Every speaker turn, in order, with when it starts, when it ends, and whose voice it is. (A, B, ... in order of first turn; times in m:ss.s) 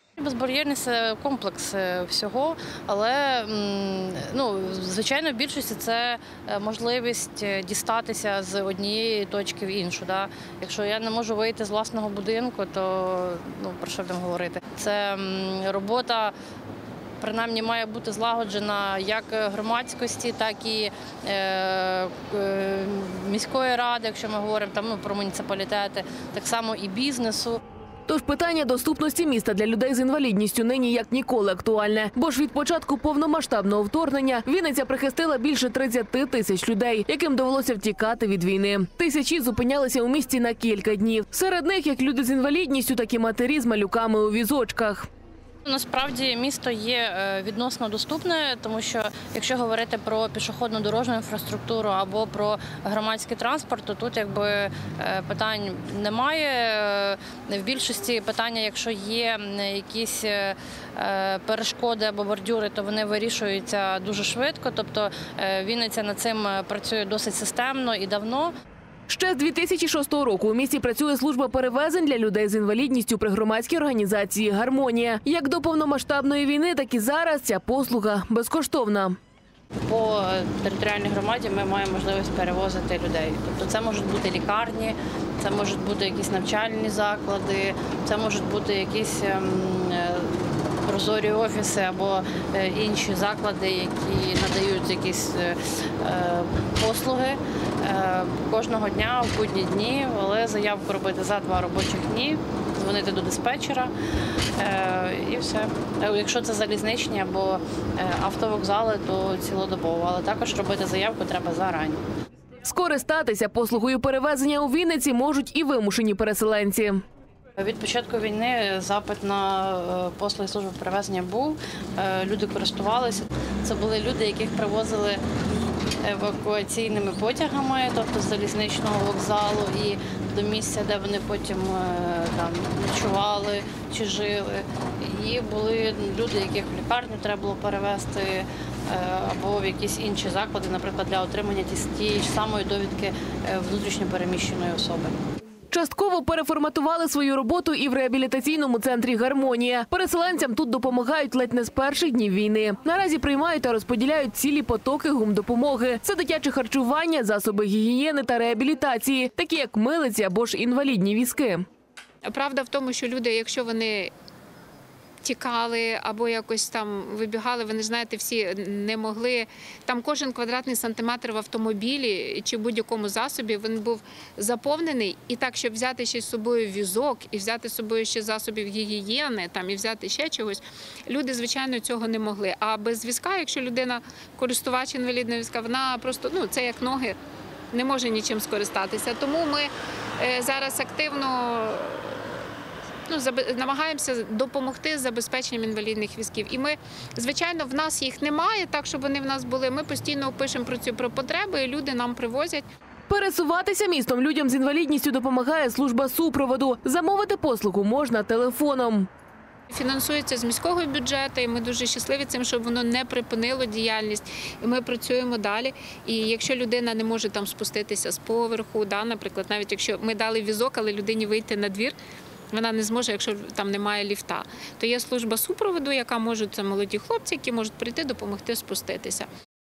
0:00.2-0:16.3 A
0:17.2-0:27.6 A
0:28.1-0:45.1 B
0:45.6-1:08.5 A
1:09.1-1:19.2 B
1:19.9-1:43.9 A
1:44.6-1:52.0 A
1:52.6-1:57.0 B
1:57.6-2:05.2 A
2:06.0-2:25.1 A
2:25.7-2:41.6 B
2:42.3-2:44.1 C
2:45.2-3:07.2 C
3:07.7-3:12.4 C
3:13.1-3:22.6 C
3:23.1-3:29.1 B
3:29.7-3:42.0 C
3:42.5-3:49.3 C